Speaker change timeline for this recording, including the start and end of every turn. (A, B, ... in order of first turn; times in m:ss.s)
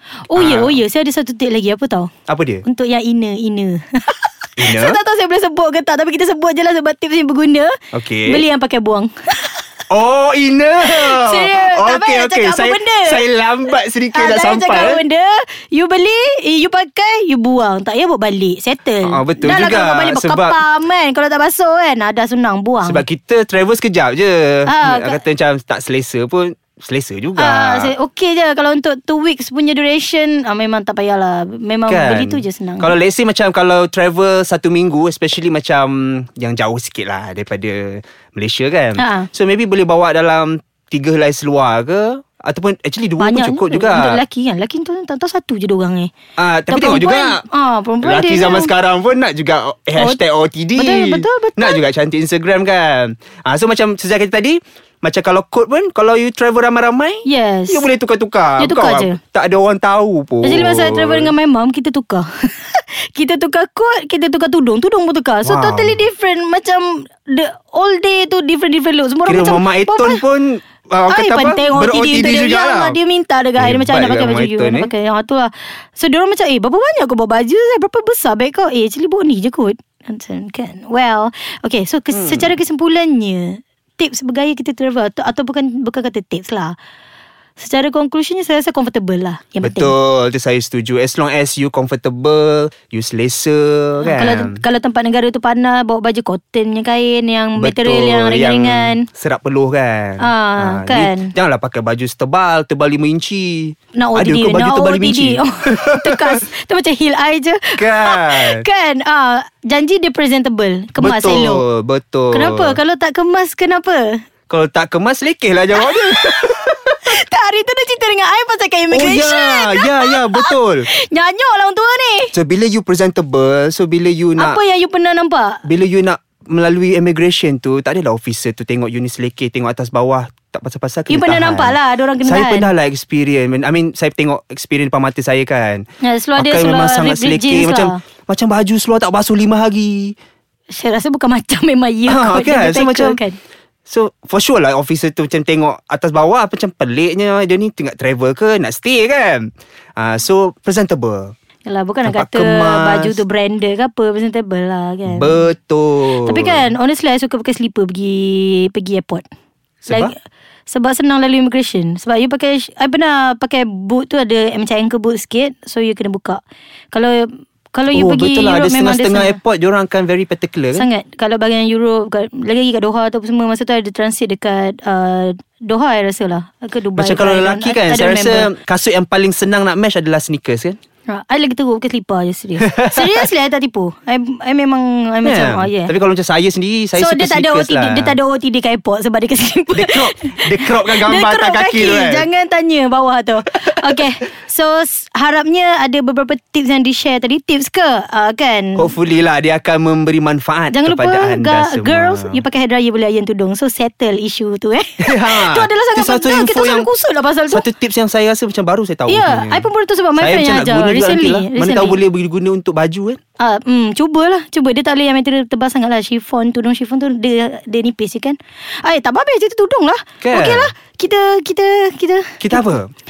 0:00.3-0:02.1 A
0:00.3-0:00.8 B
0:02.3-0:02.6 B
0:02.6-0:07.7 A
0:04.6-0:05.0 B
0:07.9-0:08.4 B
0:08.2-0:09.6 A
0:09.9-0:15.0 B
0:10.8-0:13.3 A
0:14.1-0:23.0 A
0:19.0-0:20.6 B
0:22.8-0:28.0 B
0:24.7-0:25.2 A
0:27.4-0:32.9 A
0:31.9-0:44.2 B
0:39.0-0:39.3 A
0:43.2-0:46.1 A
0:46.4-0:47.4 B
0:46.7-0:48.7 A
0:48.0-1:01.3 B
0:50.8-0:51.8 A
0:57.2-0:57.9 A
0:58.6-0:59.2 A
1:00.4-1:10.2 A
1:05.4-1:06.0 B
1:09.3-1:13.0 B
1:11.1-1:26.8 A
1:13.6-1:14.9 B
1:22.1-1:22.6 B
1:27.6-1:29.9 A
1:29.6-1:34.6 B
1:34.0-1:39.1 A
1:37.6-1:46.4 B
1:40.2-1:41.3 A
1:44.0-1:51.6 A
1:47.8-1:48.7 B
1:51.0-1:52.8 B
1:52.3-1:54.2 A
1:54.5-1:57.2 B
1:55.8-2:02.3 A
1:58.9-2:00.9 B
2:02.3-2:04.6 B
2:04.4-2:05.6 A
2:05.6-2:15.8 B
2:11.1-2:12.7 A
2:16.0-2:18.0 A
2:16.4-2:20.2 B
2:20.7-2:23.4 A
2:22.1-2:23.2 B
2:23.9-2:31.4 B
2:31.7-2:35.4 A
2:32.0-2:33.2 B
2:35.1-2:36.7 B
2:36.2-2:39.2 A
2:39.9-2:40.1 B
2:39.9-2:40.1 A
2:40.7-2:49.4 A
2:47.9-2:50.9 B
2:50.7-2:58.5 A
2:57.0-3:00.8 B
3:01.1-3:05.9 A
3:02.6-3:03.3 B
3:05.2-3:08.2 B
3:06.9-3:18.9 A
3:09.7-3:12.3 B
3:13.7-3:14.0 B
3:18.8-3:22.4 B
3:20.7-3:27.7 A
3:25.0-3:26.9 B
3:27.5-3:33.2 B
3:29.1-3:32.0 A
3:33.4-3:42.7 A
3:40.2-3:40.7 B
3:42.4-3:42.9 B